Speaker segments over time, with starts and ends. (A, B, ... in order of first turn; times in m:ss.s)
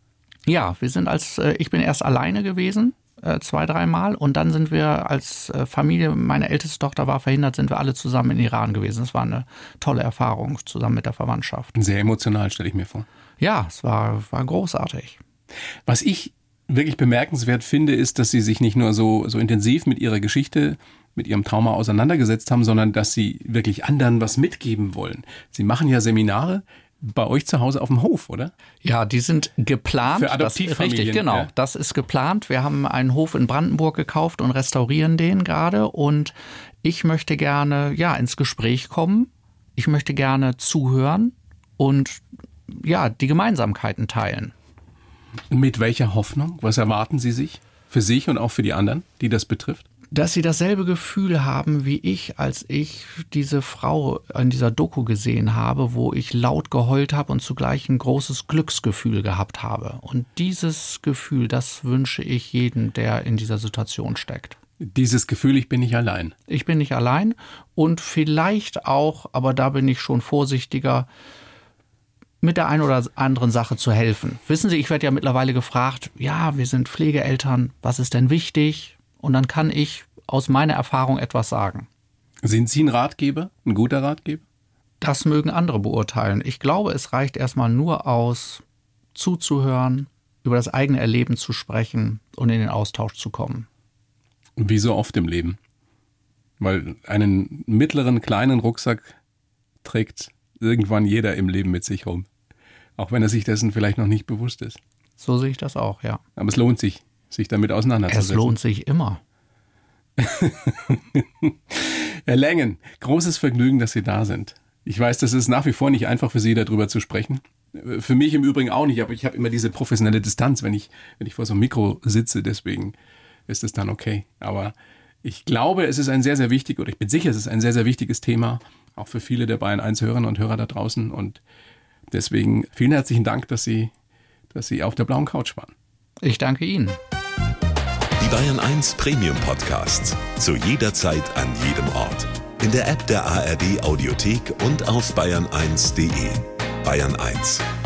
0:00.5-0:11.7 A
0:11.7-0:13.0 B
0:13.4-0:15.2 A
0:15.9-0:28.5 B
0:28.8-0:44.5 A
0:30.1-0:31.5 B
0:45.5-0:49.8 B
0:50.1-1:04.6 A
1:04.8-1:06.3 B
1:06.5-1:11.1 A
1:12.4-1:21.9 A
1:22.4-1:24.4 B
1:25.0-1:28.6 A
1:29.1-1:33.7 A
1:34.6-1:35.6 B
1:36.6-1:39.1 B
1:39.8-1:42.3 B
1:43.0-1:44.8 B
1:45.2-1:46.2 A
1:46.4-1:48.5 B
1:48.1-1:49.2 A
1:50.2-2:02.9 B
2:03.5-2:11.4 B
2:12.1-2:13.9 B
2:14.5-2:15.7 B
2:16.2-2:17.0 A
2:18.2-2:27.6 C